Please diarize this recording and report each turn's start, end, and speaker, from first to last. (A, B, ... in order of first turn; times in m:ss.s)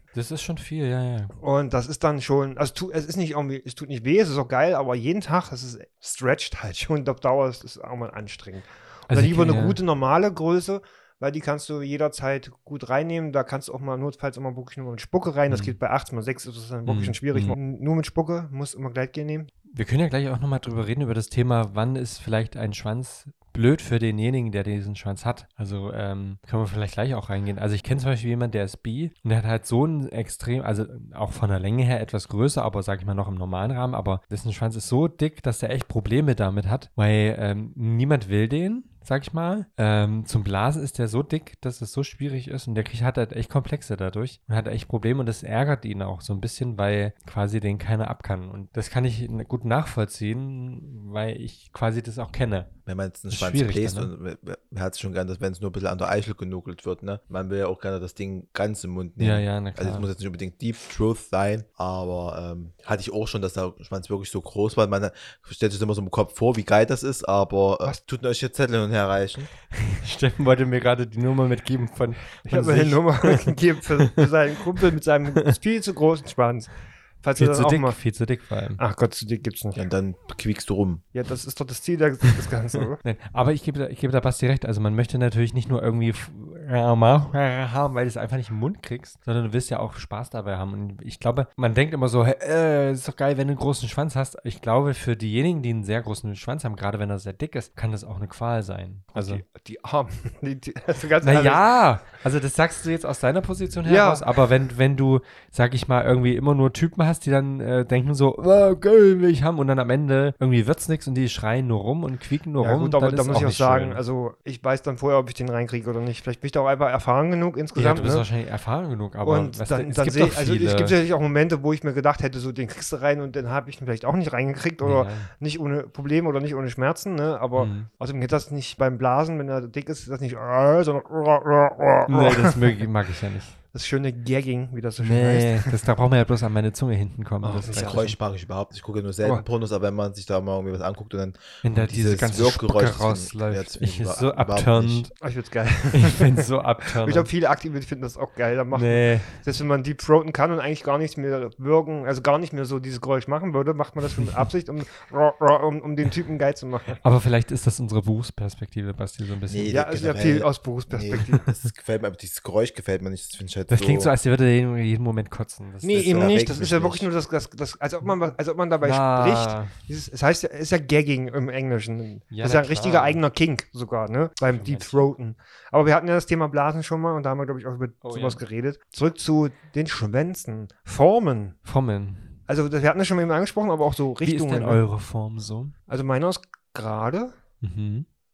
0:00.1-0:01.3 A
0:01.4-0:19.5 B
0:09.1-0:09.8 A
0:15.5-0:15.8 A
0:16.8-0:17.6 A
0:19.7-0:52.7 A
0:52.9-1:09.5 C
0:53.3-0:54.1 A
0:59.2-1:00.1 A
1:09.7-1:14.8 A
1:12.5-1:18.0 B
1:17.4-1:18.8 A
1:18.8-1:19.8 B
1:19.8-1:21.0 C
1:21.1-1:23.0 B
1:23.0-1:39.4 A
1:39.1-1:41.6 B
1:41.2-1:54.0 A
1:43.8-1:44.3 B
1:52.6-1:58.3 B
1:57.7-2:00.9 A
1:59.2-2:12.7 B
2:04.8-2:05.3 A
2:07.6-2:07.9 A
2:12.1-2:13.6 A
2:13.7-2:15.8 B
2:15.0-2:18.1 A
2:17.4-2:18.1 B
2:17.7-2:25.1 C
2:21.6-2:25.1 A
2:25.2-2:37.0 B
2:25.9-2:27.3 A
2:28.7-2:29.4 A
2:37.0-2:39.8 A
2:39.5-2:44.1 C
2:39.7-2:41.5 B
2:43.7-2:46.6 A
2:45.8-3:01.6 B
2:45.9-2:47.1 C
2:48.8-2:49.7 A
2:52.3-2:53.2 A
2:54.5-2:55.1 A
2:58.0-2:58.4 A
3:01.6-3:02.4 A
3:02.5-3:04.8 B
3:04.2-3:05.7 A
3:05.9-3:07.4 B
3:07.6-3:08.0 A